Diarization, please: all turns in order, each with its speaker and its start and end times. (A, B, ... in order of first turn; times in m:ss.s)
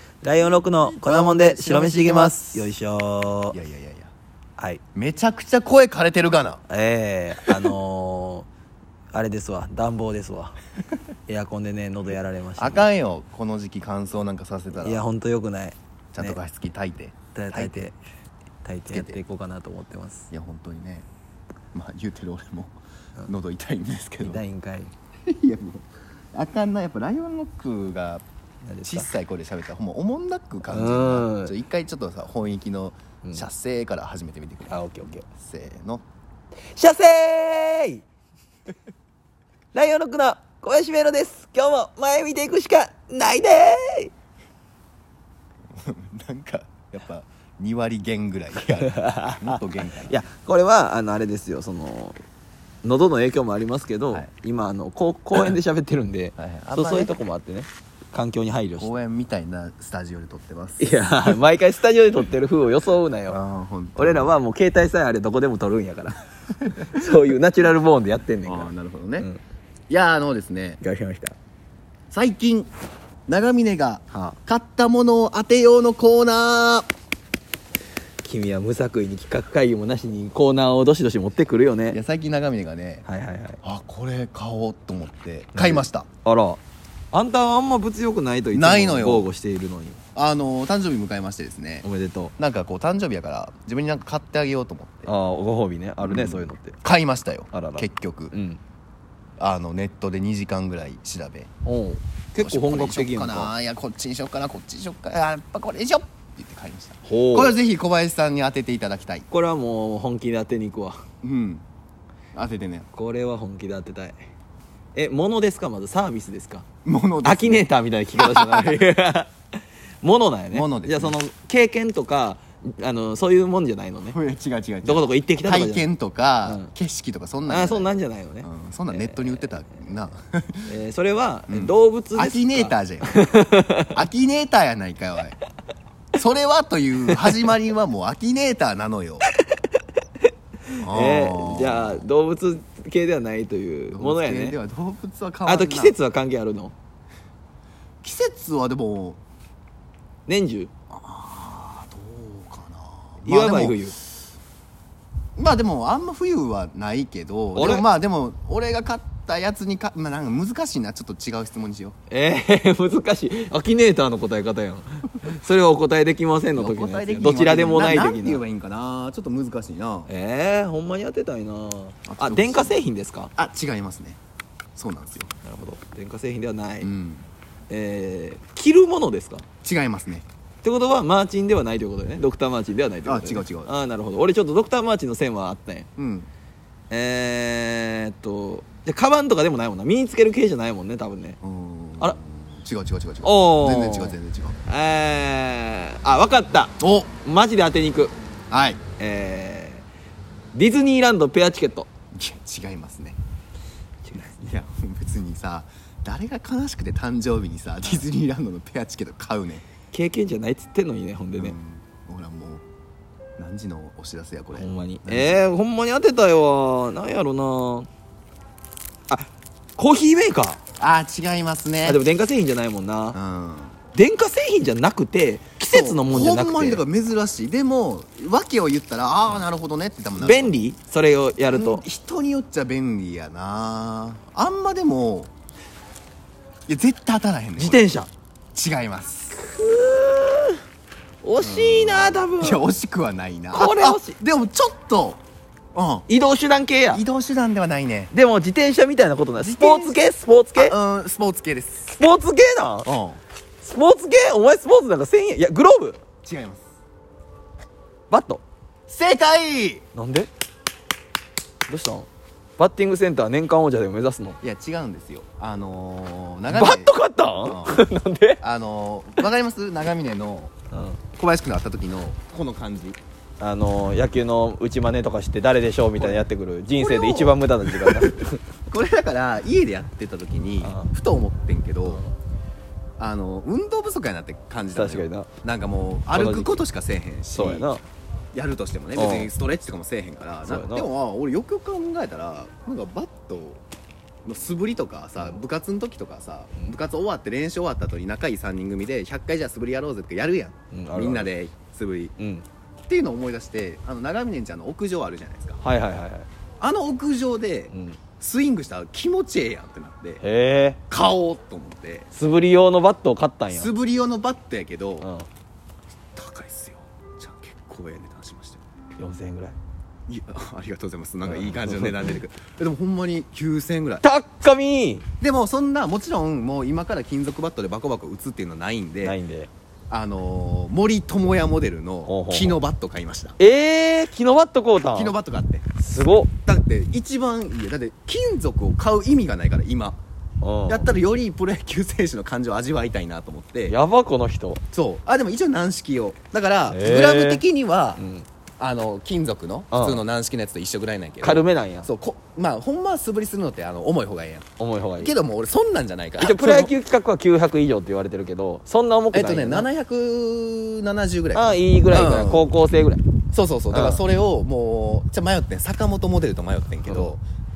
0:00.2-0:03.5 A
0:00.4-0:02.7 B
0:03.5-0:04.1 B
0:04.9-0:06.6 B
0:06.7-0:08.5 A
0:09.1-0:10.6 A
0:11.3-0:12.8 A
0:12.6-0:15.0 B
0:14.8-0:16.4 A
0:16.1-0:17.9 B
0:17.3-0:18.0 A
0:18.6-0:20.3 A
0:18.9-0:19.2 B
0:20.3-0:21.0 B
0:21.7-0:22.7 B
0:23.3-0:24.4 B
0:24.2-0:24.9 A
0:25.2-0:28.2 B
0:28.6-0:29.1 A
0:28.8-0:36.0 B
0:30.7-0:31.5 A
0:34.6-0:35.2 A
0:36.7-0:38.0 A
0:39.7-0:44.1 A
0:45.7-0:50.2 B
0:48.8-0:52.2 A
0:52.8-0:59.0 A
0:56.4-0:57.1 B
0:58.8-1:01.4 B
1:00.8-1:03.4 A
1:03.3-1:04.3 B
1:04.0-1:06.2 A
1:06.7-1:09.4 A
1:06.8-1:07.1 B
1:08.4-1:09.3 B
1:09.9-1:10.8 B
1:10.8-1:11.4 A
1:12.1-1:12.7 B
1:13.3-1:16.9 B
1:18.2-1:22.0 A
1:21.9-1:23.0 B
1:23.0-1:23.6 A
1:23.6-1:26.1 B
1:25.5-1:26.6 A
1:27.1-1:30.0 A
1:28.5-1:29.3 B
1:30.1-1:31.8 B
1:31.8-1:32.3 A
1:32.4-1:35.1 B
1:35.0-1:36.8 A
1:36.0-1:38.3 B
1:37.5-1:38.6 A
1:39.4-1:41.5 B
1:41.6-1:43.5 A
1:42.4-1:49.3 B
1:47.0-1:47.6 A
1:49.3-1:51.0 A
1:51.2-1:51.6 B
1:52.3-1:52.9 B
1:52.9-1:54.3 A
1:54.9-1:56.6 A
1:56.8-1:58.8 B
1:57.2-1:59.3 A
2:00.0-2:04.2 A
2:00.5-2:01.2 B
2:04.1-2:07.9 B
2:04.8-2:05.8 A
2:07.5-2:09.5 A
2:08.4-2:10.7 B
2:10.6-2:14.0 A
2:11.5-2:13.2 B
2:13.9-2:15.4 B
2:16.2-2:19.2 B
2:20.7-2:24.6 A
2:20.8-2:22.0 B
2:23.9-2:26.0 B
2:25.4-2:26.7 A
2:28.0-2:29.2 B
2:30.3-2:30.7 A
2:30.9-2:33.8 B
2:33.2-2:34.0 A
2:35.4-2:41.9 B
2:37.5-2:37.8 A
2:42.1-2:48.4 A
2:46.6-2:50.1 B
2:50.1-2:53.3 A
2:52.1-2:52.8 B
2:53.4-2:54.2 B
2:54.8-2:55.3 B
2:55.4-2:56.9 A
2:56.8-2:57.3 B
2:57.7-2:59.4 A
2:59.6-3:00.2 B
3:00.6-3:05.9 A
3:03.0-3:03.7 B
3:06.0-3:06.3 B
3:06.9-3:11.4 A
3:11.4-3:14.6 B
3:13.2-3:18.1 A
3:16.8-3:17.1 B
3:18.5-3:18.8 B
3:19.0-3:19.8 A
3:20.5-3:21.9 A
3:22.1-3:23.2 B
3:24.0-3:24.5 A
3:24.1-3:29.6 B
3:29.9-3:31.5 A
3:31.4-3:32.6 B
3:33.4-3:35.4 B
3:34.5-3:37.9 A
3:39.1-3:40.6 A
3:40.8-3:42.0 B
3:41.8-3:43.2 A
3:43.1-3:43.8 B
3:43.9-3:46.8 A
3:45.6-3:50.7 B
3:50.2-3:51.8 A
3:51.5-3:55.3 B
3:56.7-3:58.0 B
3:57.6-3:58.1 A
3:58.5-3:59.4 B
3:59.4-4:00.6 A
4:01.2-4:02.6 A
4:01.4-4:05.2 B
4:03.5-4:04.2 A
4:05.7-4:06.0 B
4:06.1-4:07.0 A
4:06.9-4:08.1 B
4:08.1-4:10.8 A
4:09.4-4:12.0 B
4:11.9-4:12.9 A
4:12.8-4:13.2 B
4:13.6-4:16.0 A
4:16.2-4:16.6 B
4:18.1-4:18.4 A
4:18.9-4:19.8 B
4:19.9-4:20.3 A
4:21.7-4:22.1 A
4:22.6-4:24.4 A
4:24.4-4:27.8 B
4:26.5-4:28.4 A
4:28.4-4:30.5 B
4:30.7-4:31.0 A
4:31.2-4:33.0 B
4:33.4-4:38.4 A
4:36.0-4:36.2 B
4:36.8-4:42.0 B
4:40.6-4:40.9 A
4:43.0-4:47.7 B
4:44.7-4:45.3 A
4:46.1-4:46.6 A
4:47.3-4:47.8 A
4:48.3-4:53.6 B
4:49.0-4:49.3 A
4:50.4-4:50.9 A
4:54.2-5:02.1 B
5:00.7-5:01.3 A
5:02.2-5:02.4 A
5:02.8-5:05.6 B
5:05.6-5:06.3 A
5:06.6-5:10.2 B
5:07.7-5:08.0 A
5:10.2-5:10.8 A
5:10.9-5:12.1 B
5:12.1-5:13.7 A
5:13.5-5:15.1 B
5:15.0-5:15.3 A
5:16.1-5:18.6 B
5:19.0-5:19.6 A
5:20.1-5:24.0 B
5:21.3-5:22.1 A
5:24.0-5:25.0 A
5:25.2-5:29.2 B
5:29.0-5:29.5 A
5:29.9-5:33.4 B
5:32.1-5:32.6 A
5:33.4-5:35.1 A
5:34.9-5:35.7 B
5:35.8-5:36.3 A
5:36.4-5:40.0 B
5:40.4-5:40.9 A
5:40.7-5:43.8 B
5:43.7-5:44.6 A
5:44.7-5:48.0 B
5:46.7-5:47.4 A
5:48.0-5:48.2 A
5:48.6-5:54.5 B
5:49.7-5:50.0 A
5:51.2-5:51.9 A
5:54.6-5:55.1 A
5:55.0-5:56.7 B
5:56.2-5:59.7 A
5:59.1-6:02.5 B
6:01.3-6:03.0 A
6:03.3-6:07.2 B
6:03.7-6:04.0 A
6:06.9-6:07.1 A